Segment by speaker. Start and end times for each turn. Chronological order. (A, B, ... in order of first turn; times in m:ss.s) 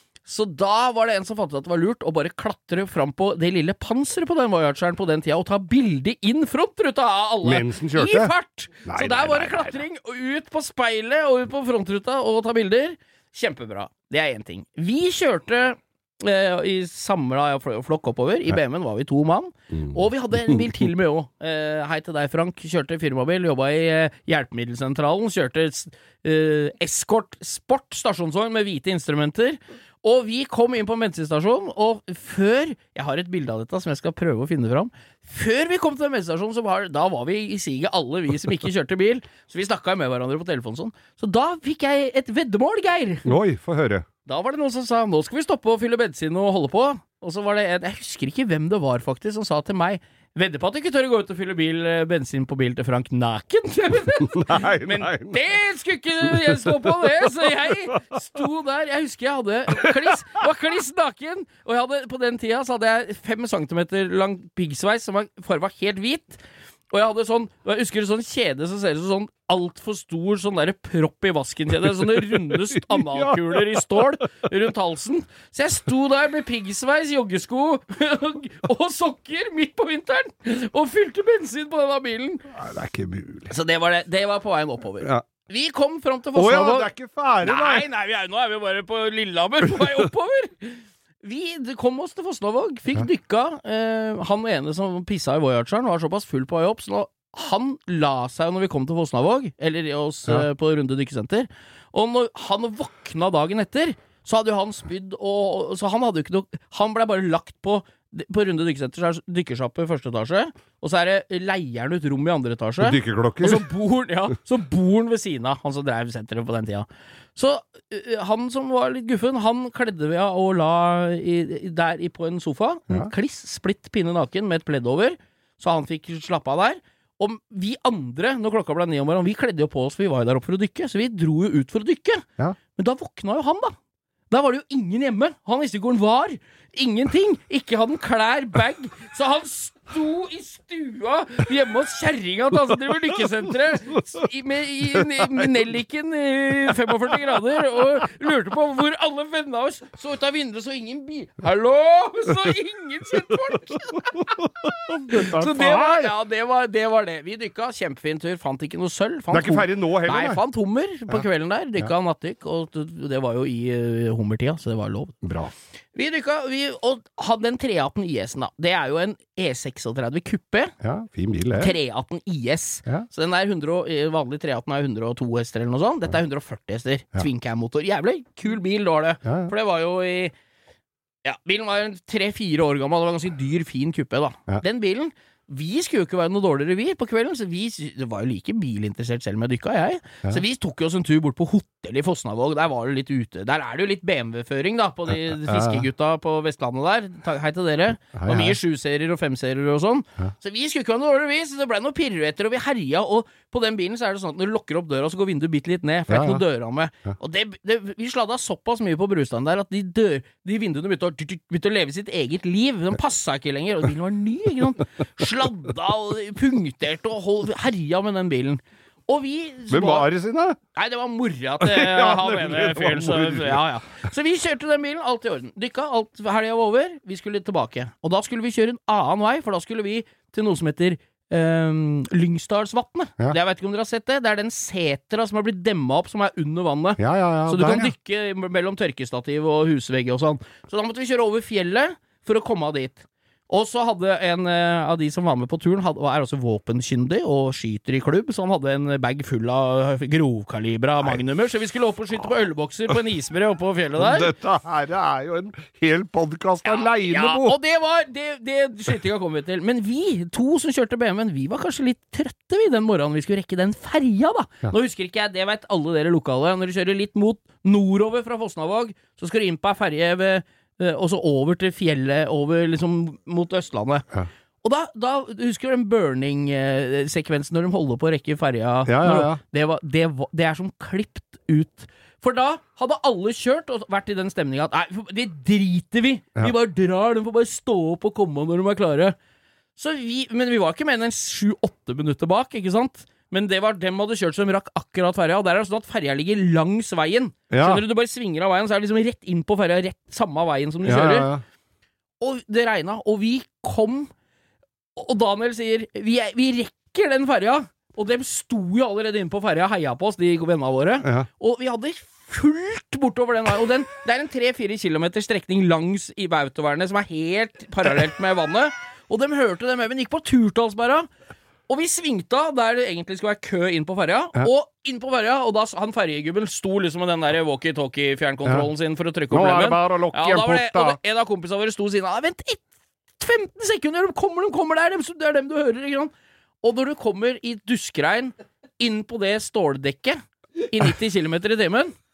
0:00.2-0:43.4 A
0:07.4-0:08.3 B
0:08.9-0:09.8 B
0:43.2-0:44.1 B
0:44.3-1:22.5 A
0:54.3-0:55.6 B
0:56.2-0:57.7 B
1:12.0-1:14.0 B
1:22.5-1:23.5 B
1:23.5-1:26.9 A
1:26.4-1:27.9 B
1:27.4-2:13.8 A
1:52.8-1:53.7 B
2:14.3-2:34.2 A
2:24.9-2:25.5 B
2:34.2-2:36.2 B
2:35.0-2:45.2 A
2:39.3-2:40.4 B
2:45.2-2:45.5 B
2:46.0-2:50.7 A
2:50.8-2:51.7 B
2:51.6-3:00.3 A
2:59.2-2:59.5 B
3:01.2-3:40.1 A
3:15.1-3:15.9 B
3:18.1-3:18.6 B
3:26.1-3:26.4 B
3:39.7-3:40.6 B
3:40.7-4:14.3 A
3:41.6-3:43.6 B
3:57.0-3:57.9 B
4:14.0-4:17.6 B
4:16.6-4:34.1 A
4:34.6-4:49.2 A
4:38.9-4:39.4 B
4:49.8-5:01.3 A
4:57.5-4:57.8 B
5:00.8-5:01.4 B
5:02.2-5:04.1 A
5:05.0-5:21.1 A
5:21.7-5:32.7 A
5:29.3-5:31.0 B
5:33.2-5:36.1 A
5:36.6-5:41.9 A